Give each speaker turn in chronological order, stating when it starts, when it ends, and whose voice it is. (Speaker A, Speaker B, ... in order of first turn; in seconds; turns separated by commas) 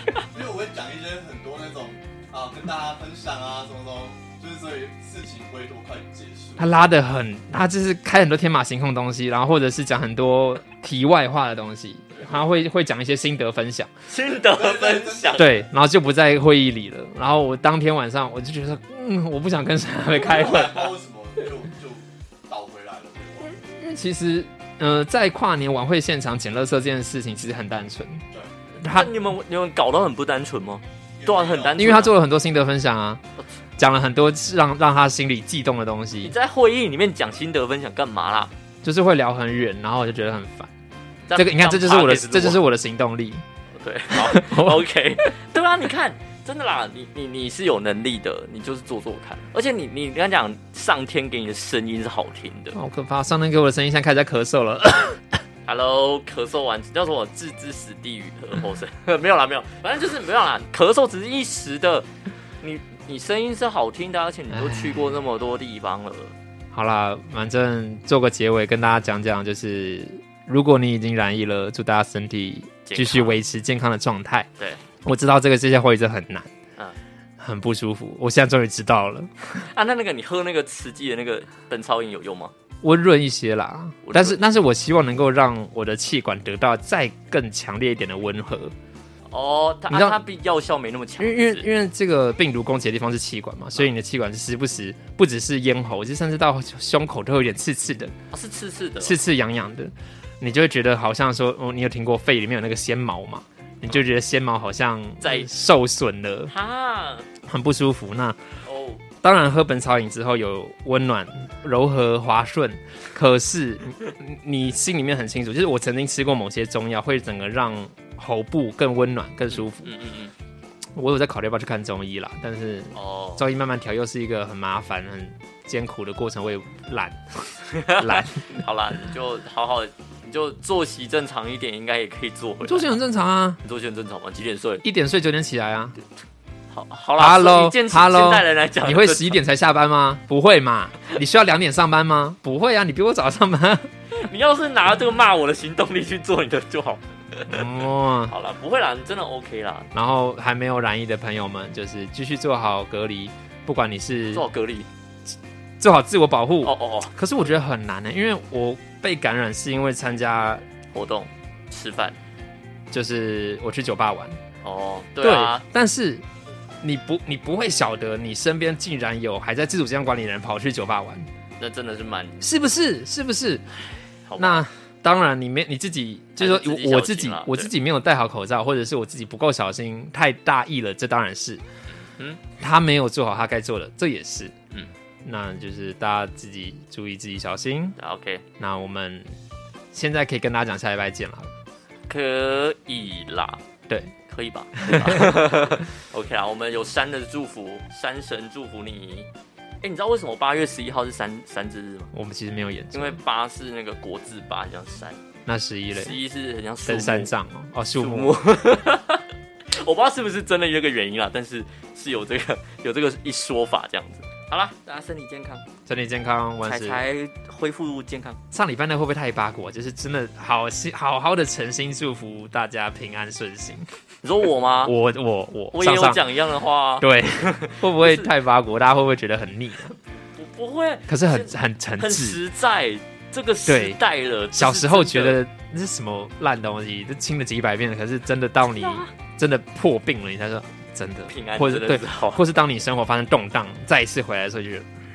Speaker A: 0.3-6.9, Speaker B: 6.6-13.9, Speaker C: 14.1-15.5, Speaker A: 14.4-15.5, Speaker B: 15.3-20.9, Speaker A: 20.1-23.5, Speaker B: 23.5-28.2, Speaker B: 28.8-29.1, Speaker C: 28.8-32.1, Speaker A: 31.2-31.9, Speaker B: 31.8-33.2, Speaker B: 33.8-36.3, Speaker C: 36.2-38.5, Speaker B: 38.8-40.7, Speaker C: 41.2-42.6, Speaker B: 41.3-43.4, Speaker C: 43.8-52.8, Speaker B: 44.1-44.8, Speaker B: 52.7-55.3, Speaker C: 55.6-62.1, Speaker C: 62.6-66.3, Speaker B: 64.5-65.1, Speaker B: 66.7-74.5, Speaker C: 72.8-73.4, Speaker B: 75.0-76.5, Speaker B: 77.4-79.7, Speaker C: 79.7-82.5, Speaker B: 82.8-88.7, Speaker C: 84.0-84.4, Speaker C: 89.3-91.6, Speaker B: 89.9-90.2, Speaker B: 91.2-98.1, Speaker C: 98.3-99.2, Speaker B: 99.0-106.5, Speaker C: 105.2-105.5, Speaker C: 106.5-107.3, Speaker B: 107.4-108.4, Speaker C: 108.6-109.0, Speaker B: 109.2-119.9, Speaker C: 119.5-120.3, Speaker B: 121.0-128.6, Speaker C: 122.9-123.4, Speaker C: 127.7-133.0, Speaker B: 132.6-133.6, Speaker C: 133.6-134.8, Speaker B: 134.8-136.0, Speaker C: 136.7-139.4, Speaker B: 137.2-143.9, Speaker C: 144.2-147.7, Speaker B: 147.5-148.3, Speaker C: 148.3-149.9, Speaker B: 149.9-154.4, Speaker C: 154.3-154.9, Speaker B: 155.8-160.6, Speaker C: 156.6-157.1, Speaker C: 160.9-162.2, Speaker B: 162.9-164.4, Speaker C: 164.6-165.6, Speaker B: 165.2-166.2, Speaker B: 166.8-171.3, Speaker C: 171.6-172.5, Speaker B: 172.4-173.6, Speaker C: 174.2-174.6, Speaker B: 174.4-181.6, Speaker C: 176.4-177.7, Speaker C: 182.1-182.4, Speaker B: 182.6-184.5, Speaker B: 185.2-188.0, Speaker C: 188.0-188.4, Speaker B: 188.6-189.3, Speaker B: 189.9-191.5, Speaker C: 192.1-193.6, Speaker B: 193.9-194.1, Speaker C: 194.3-199.3, Speaker B: 194.7-195.3, Speaker C: 199.8-202.1, Speaker B: 202.1-203.2, Speaker C: 202.9-205.2, Speaker B: 205.5-206.2, Speaker C: 205.9-207.3, Speaker B: 206.8-208.4, Speaker C: 208.0-215.7, Speaker B: 215.9-217.0, Speaker C: 216.6-218.4, Speaker B: 218.5-223.9, Speaker C: 224.2-224.9, Speaker B: 224.8-226.2, Speaker C: 225.7-228.3, Speaker B: 227.0-230.0, Speaker C: 230.3-235.4, Speaker B: 231.1-232.4, Speaker B: 233.7-234.0, Speaker B: 234.5-244.9, Speaker C: 238.6-239.1, Speaker C: 241.3-242.4